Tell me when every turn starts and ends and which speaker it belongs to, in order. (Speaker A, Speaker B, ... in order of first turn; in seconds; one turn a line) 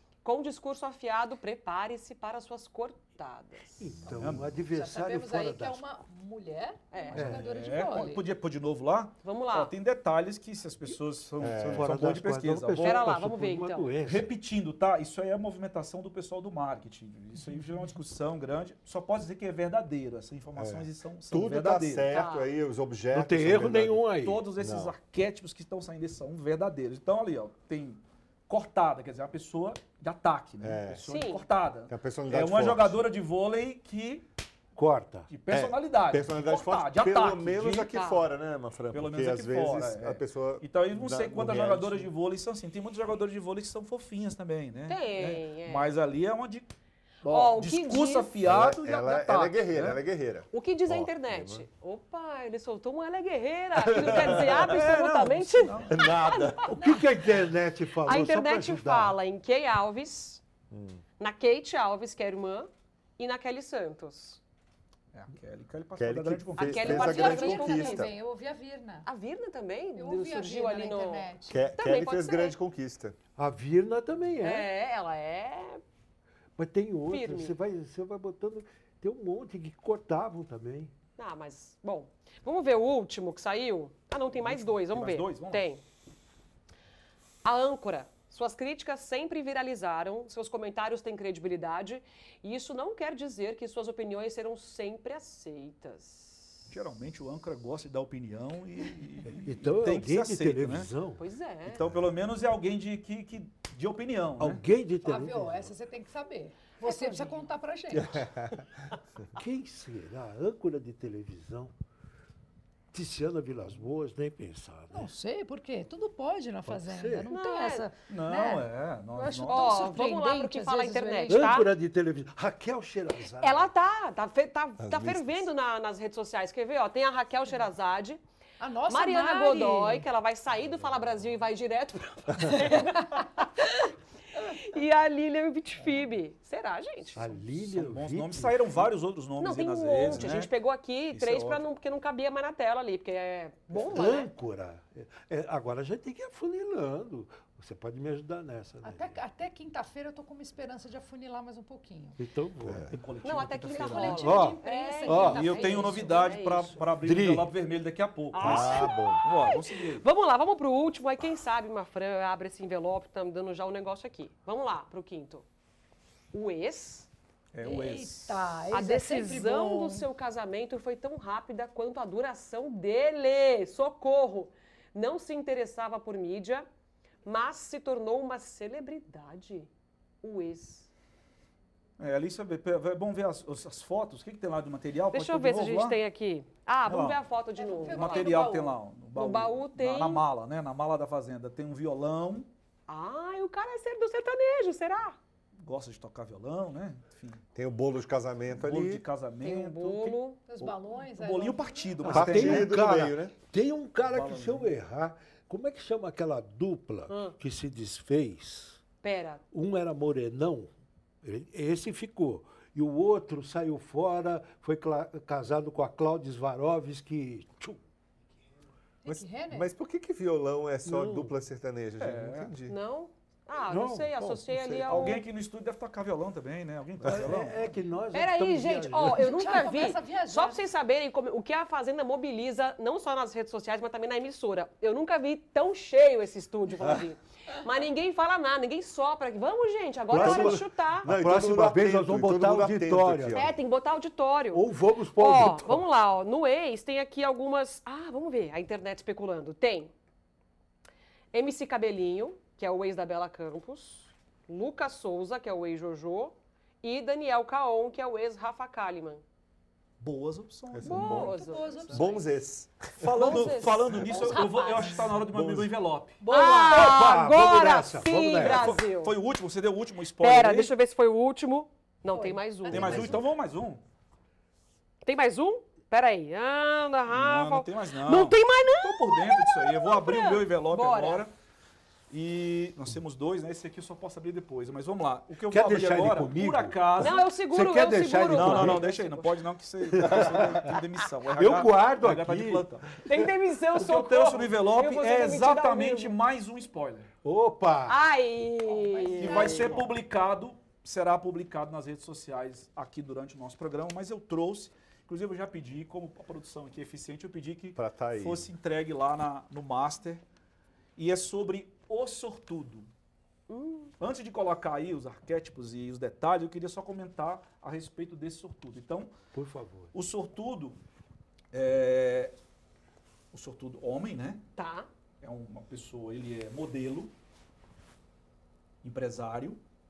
Speaker A: 0.2-4.1
Speaker B: 3.8-5.8
Speaker C: 4.1-8.2
Speaker D: 4.2-4.5
Speaker A: 6.9-7.3
Speaker B: 7.1-7.4
Speaker D: 7.3-13.1
Speaker A: 9.2-9.7
Speaker E: 11.4-12.0
Speaker B: 11.7-14.3
Speaker A: 12.8-13.9
Speaker D: 14.0-22.3
Speaker E: 20.6-24.9
Speaker A: 22.1-22.5
Speaker B: 23.1-24.4
Speaker D: 24.2-34.2
Speaker E: 30.6-31.0
Speaker A: 31.1-31.4
Speaker E: 31.9-33.0
Speaker B: 34.8-35.3
Speaker D: 35.3-37.9
Speaker E: 35.5-42.1
Speaker A: 37.9-38.3
Speaker D: 38.9-46.7
Speaker A: 44.9-45.9
Speaker D: 47.2-50.0
Speaker A: 47.3-48.3
Speaker E: 48.4-51.6
Speaker A: 50.5-57.0
Speaker E: 53.8-54.7
Speaker D: 54.4-56.1
Speaker E: 55.9-56.8
Speaker B: 56.6-59.2
Speaker A: 58.0-60.4
Speaker E: 60.7-61.0
Speaker A: 61.2-64.4
Speaker D: 65.1-67.3
Speaker E: 66.0-68.1
Speaker A: 66.6-68.1
Speaker C: 66.8-69.1
Speaker A: 69.0-72.6
Speaker C: 70.0-71.6
Speaker E: 71.5-73.2
Speaker B: 73.3-74.7
Speaker A: 74.4-75.8
Speaker B: 76.6-80.9
Speaker A: 77.1-77.5
Speaker A: 81.2-85.8
Speaker D: 84.3-85.6
Speaker A: 87.4-96.6
Speaker D: 96.7-100.9
Speaker B: 99.4-101.2
Speaker A: 101.2-101.8
Speaker D: 101.6-104.7
Speaker B: 104.4-105.7
Speaker C: 105.0-108.3
Speaker A: 106.8-107.5
Speaker E: 108.0-108.7
Speaker B: 109.3-111.7
Speaker B: 112.9-115.1
Speaker C: 114.9-121.5
Speaker B: 116.6-117.3
Speaker A: 117.3-117.9
Speaker D: 118.1-119.9
Speaker A: 119.5-121.7
Speaker B: 121.3-123.7
Speaker A: 123.4-128.2
Speaker E: 124.8-125.5
Speaker C: 128.6-130.1
Speaker A: 128.9-137.4
Speaker C: 132.5-133.3
Speaker B: 137.2-138.9
Speaker D: 137.6-140.5
Speaker A: 139.4-144.3
Speaker D: 141.1-141.6
Speaker B: 143.7-149.2
Speaker C: 148.8-152.2
Speaker B: 152.2-152.9
Speaker E: 152.7-152.9
Speaker D: 152.9-154.5
Speaker A: 153.2-156.8
Speaker C: 153.7-156.4
Speaker B: 154.2-155.5
Speaker D: 155.2-160.0
Speaker B: 157.0-157.5
Speaker A: 158.3-165.4
Speaker E: 158.4-159.2
Speaker A: 166.3-167.1
Speaker D: 167.5-168.6
Speaker C: 167.6-170.0
Speaker A: 168.7-176.7
Speaker A: 177.2-179.7
Speaker A: 180.2-180.9
Speaker D: 182.0-186.0
Speaker A: 185.1-188.6
Speaker D: 186.8-187.2
Speaker C: 187.6-188.8
Speaker D: 187.9-192.5
Speaker A: 189.2-190.2
Speaker A: 192.9-195.2
Speaker D: 195.6-197.4
Speaker E: 197.5-199.0
Speaker D: 198.5-200.2
Speaker A: 199.4-200.4
Speaker C: 200.5-202.0
Speaker D: 201.1-203.1
Speaker B: 202.0-208.8
Speaker E: 202.1-203.3
Speaker D: 204.0-204.7
Speaker A: 207.1-207.4
Speaker A: 209.0-209.4
Speaker B: 209.5-210.7
Speaker B: 211.2-217.8
Speaker C: 219.0-219.7
Speaker E: 219.1-222.7
Speaker B: 220.8-221.3
Speaker D: 222.0-222.5
Speaker A: 222.7-225.2
Speaker B: 223.7-224.4
Speaker E: 224.2-225.1
Speaker D: 224.9-227.7
Speaker B: 227.0-229.3
Speaker C: 228.1-230.6
Speaker A: 228.1-241.1
Speaker B: 240.1-243.5
Speaker E: 240.1-243.5
Speaker A: 243.3-249.9
Speaker B: 244.5-245.9
Speaker A: 251.3-259.2
Speaker D: 260.0-261.4
Speaker E: 260.7-261.3
Speaker A: 260.8-262.1
Speaker C: 261.1-262.2
Speaker E: 261.9-263.5
Speaker D: 263.0-266.2
Speaker A: 263.1-264.5
Speaker C: 264.0-265.2
Speaker E: 265.2-265.7
Speaker C: 266.2-266.9
Speaker A: 266.3-269.1
Speaker B: 266.6-268.8
Speaker D: 268.4-270.7
Speaker A: 270.2-273.2
Speaker C: 272.1-273.2
Speaker D: 272.7-273.8
Speaker A: 275.0-281.2
Speaker D: 277.1-281.3
Speaker D: 282.1-287.3
Speaker B: 285.5-288.9
Speaker A: 287.0-289.4
Speaker D: 288.3-293.0
Speaker B: 289.9-290.7
Speaker B: 291.3-292.7
Speaker A: 293.0-296.1
Speaker D: 293.7-297.1
Speaker B: 297.2-298.0
Speaker A: 297.9-299.9
Speaker C: 298.6-299.9
Speaker D: 299.2-310.2
Speaker E: 307.7-308.5
Speaker D: 311.0-312.9
Speaker A: 313.5-313.9
Speaker D: 314.0-319.1
Speaker B: 319.3-319.9
Speaker D: 319.9-320.8
Speaker D: 321.5-322.3
Speaker D: 323.3-324.4
Speaker A: 324.6-324.9
Speaker D: 325.2-327.1
Speaker D: 328.8-329.6